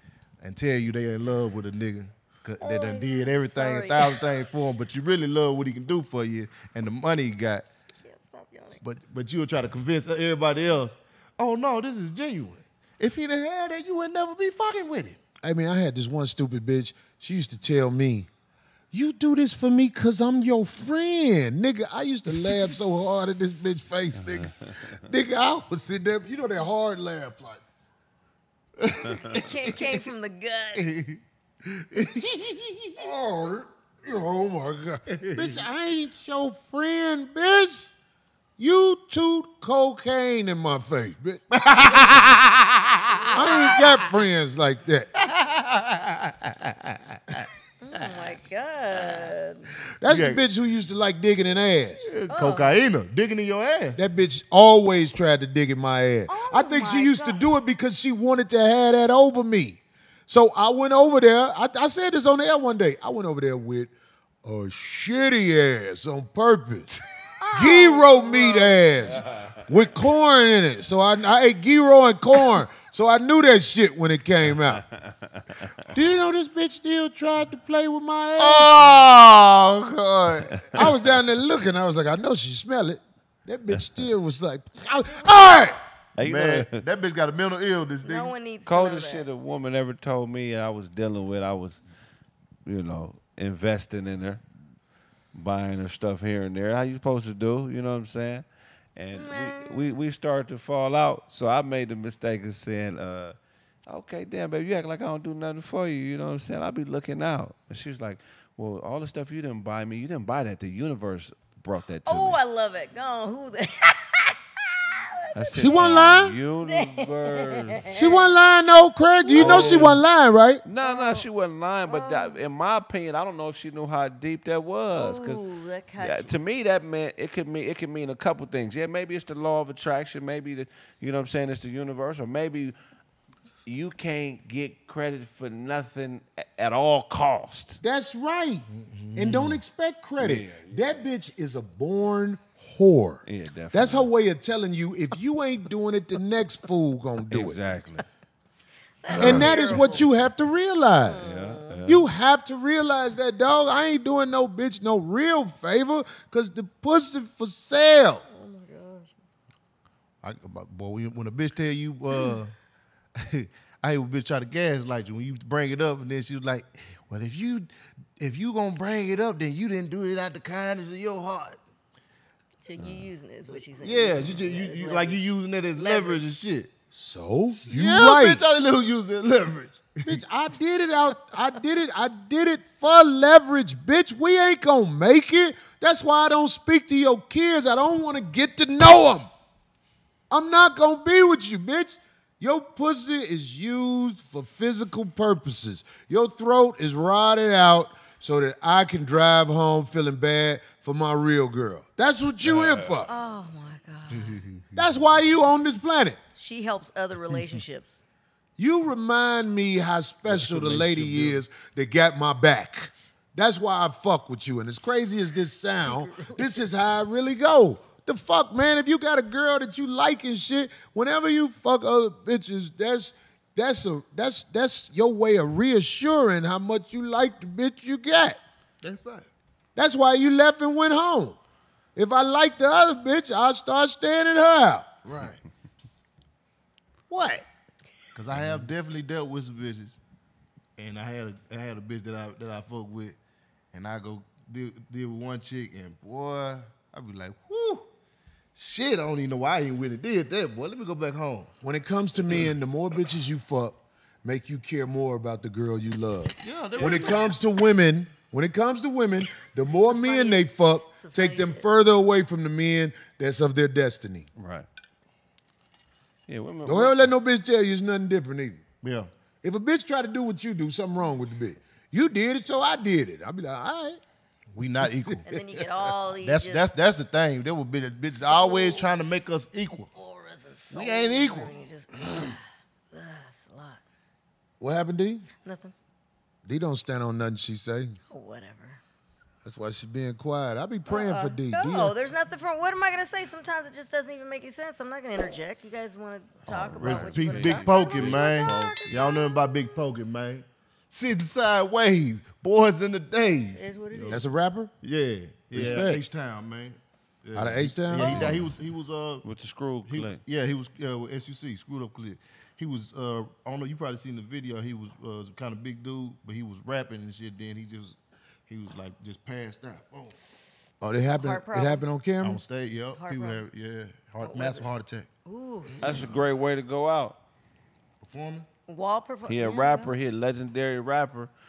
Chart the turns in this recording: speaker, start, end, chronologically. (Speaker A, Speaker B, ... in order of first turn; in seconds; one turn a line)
Speaker A: 0.4-7.7
Speaker B: 2.6-4.2
Speaker B: 8.0-8.8
Speaker A: 8.8-15.2
Speaker C: 15.4-18.3
Speaker C: 18.9-27.6
Speaker A: 22.4-22.7
Speaker D: 24.4-24.7
Speaker A: 28.8-30.0
Speaker B: 29.3-30.9
Speaker A: 30.7-33.0
Speaker C: 33.0-37.9
Speaker A: 35.1-35.6
Speaker C: 38.6-41.6
Speaker A: 41.5-43.8
Speaker B: 43.3-44.0
Speaker C: 43.3-45.1
Speaker A: 45.2-47.5
Speaker B: 47.8-49.7
Speaker C: 50.0-52.1
Speaker A: 50.0-50.4
Speaker A: 52.0-54.0
Speaker B: 52.3-52.7
Speaker C: 54.0-63.9
Speaker B: 56.3-57.4
Speaker C: 64.4-66.9
Speaker B: 67.4-68.7
Speaker C: 67.5-74.8
Speaker D: 69.1-69.6
Speaker C: 75.9-79.0
Speaker A: 78.4-80.9
Speaker D: 80.6-80.9
Speaker C: 80.7-85.8
Speaker D: 86.2-86.8
Speaker A: 86.2-88.3
Speaker B: 88.0-89.2
Speaker D: 88.7-91.8
Speaker D: 92.7-94.4
Speaker D: 95.3-98.4
Speaker D: 99.0-103.3
Speaker B: 99.1-99.9
Speaker D: 103.9-112.4
Speaker B: 112.1-115.7
Speaker D: 115.3-117.8
Speaker C: 115.5-116.3
Speaker B: 116.7-118.3
Speaker C: 117.9-120.6
Speaker B: 119.2-119.8
Speaker A: 119.3-120.0
Speaker D: 120.6-125.4
Speaker B: 120.8-121.2
Speaker B: 121.8-122.3
Speaker B: 125.0-126.3
Speaker D: 126.0-132.7
Speaker D: 133.7-137.8
Speaker C: 137.8-147.6
Speaker A: 138.7-139.6
Speaker D: 140.2-141.0
Speaker D: 143.3-144.1
Speaker D: 147.3-148.0
Speaker B: 149.0-150.0
Speaker A: 149.1-149.5
Speaker C: 149.2-151.2
Speaker D: 149.2-149.5
Speaker B: 151.0-151.8
Speaker D: 151.2-152.0
Speaker C: 151.8-158.2
Speaker B: 158.3-159.1
Speaker A: 160.2-162.5
Speaker A: 163.2-171.6
Speaker B: 172.6-175.2
Speaker A: 173.8-176.7
Speaker B: 175.8-176.3
Speaker C: 176.9-178.4
Speaker A: 177.5-180.2
Speaker C: 180.0-189.3
Speaker C: 190.3-203.1
Speaker D: 202.4-203.0
Speaker B: 203.1-204.4
Speaker A: 204.1-204.8
Speaker C: 204.7-206.2
Speaker B: 206.4-208.0
Speaker C: 208.6-228.4
Speaker A: 210.2-211.4
Speaker B: 215.9-216.4
Speaker A: 228.8-229.3
Speaker C: 229.8-231.4
Speaker C: 231.9-234.9
Speaker A: 235.0-235.4
Speaker C: 237.1-237.4
Speaker A: 238.1-240.0
Speaker A: 240.8-243.2
Speaker A: 243.7-247.9
Speaker A: 248.6-251.5
Speaker C: 251.6-264.2
Speaker A: 256.4-257.3
Speaker B: 256.8-257.3
Speaker B: 259.9-261.7
Speaker D: 264.4-264.6
Speaker D: 266.3-267.1
Speaker C: 266.6-268.6
Speaker A: 268.8-269.1
Speaker C: 269.4-274.0
Speaker A: 274.5-275.3
Speaker C: 275.1-275.4
Speaker B: 275.2-276.7
Speaker A: 276.2-279.9
Speaker B: 278.1-279.2
Speaker B: 279.9-283.8
Speaker A: 280.7-282.3
Speaker C: 284.6-285.2
Speaker B: 285.4-285.7
Speaker C: 286.4-288.0
Speaker B: 288.1-288.8
Speaker C: 289.4-291.9
Speaker B: 290.9-299.4
Speaker D: 296.5-298.9
Speaker A: 296.8-304.2
Speaker B: 303.5-304.2
Speaker C: 304.1-304.7
Speaker A: 304.8-309.2
Speaker C: 305.5-306.0
Speaker C: 307.3-308.5
Speaker D: 307.9-308.5
Speaker D: 309.2-310.2
Speaker A: 309.9-320.2
Speaker C: 320.8-322.4
Speaker B: 321.2-321.8
Speaker A: 322.2-325.1
Speaker B: 322.9-323.4
Speaker B: 324.2-324.7
Speaker B: 325.2-325.8
Speaker A: 325.7-326.2
Speaker D: 325.8-327.2
Speaker A: 328.0-328.4
Speaker B: 328.7-329.9
Speaker D: 329.3-331.3